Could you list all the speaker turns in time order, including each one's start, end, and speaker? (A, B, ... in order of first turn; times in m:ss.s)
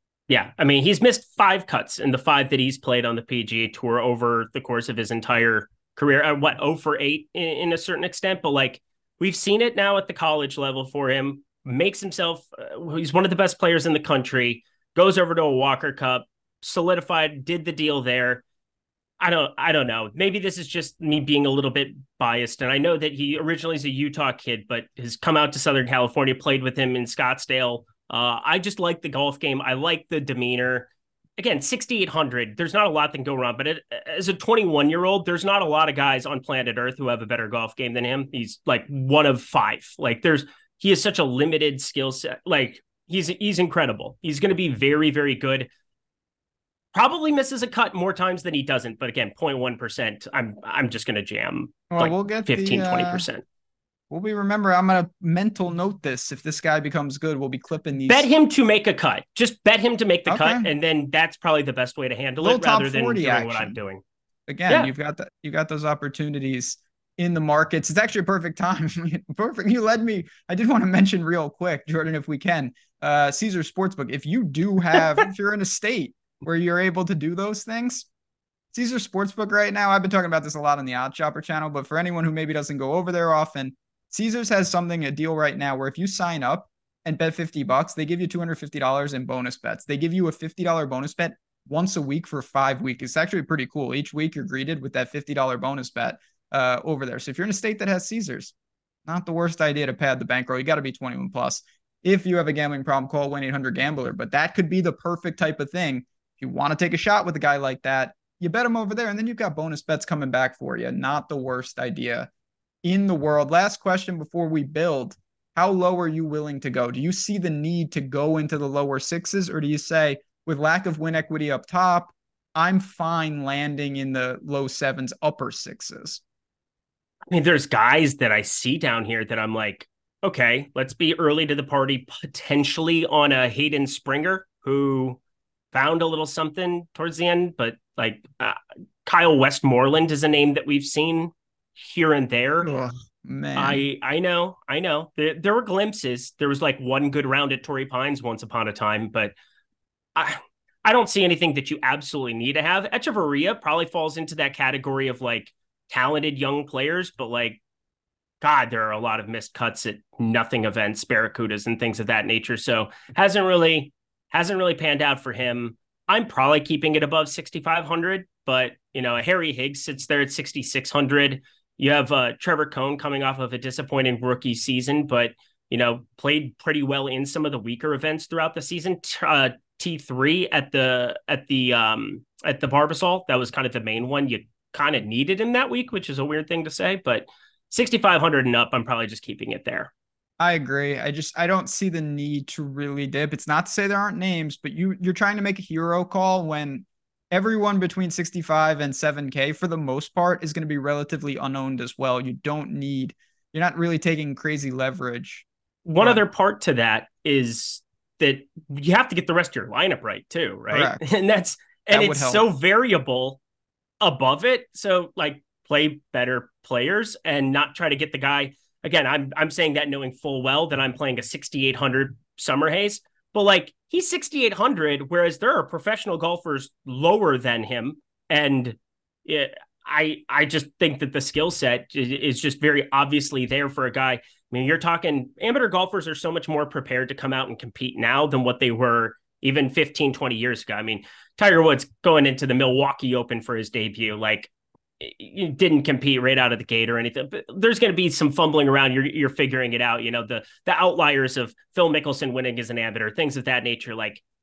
0:00.3-0:18.4 A
0:19.2-0:45.7 A
0:46.9-0:53.4 A
0:51.9-0:53.3 B
0:54.1-0:58.3 B
0:58.1-1:04.0 A
1:00.3-1:00.7 B
1:02.4-1:03.8 B
1:04.5-1:18.1 B
1:18.7-1:38.5 B
1:39.1-1:52.3 B
1:52.8-2:06.2 B
2:07.3-2:15.2 A
2:15.7-2:22.7 A
2:22.6-2:23.8 B
2:23.6-2:29.3 A
2:30.2-2:37.6 A
2:38.4-3:09.9 A
3:10.4-3:25.4 B
3:25.9-3:33.4 A
3:30.7-3:31.0 B
3:31.9-3:32.4 B
3:34.0-4:14.2 A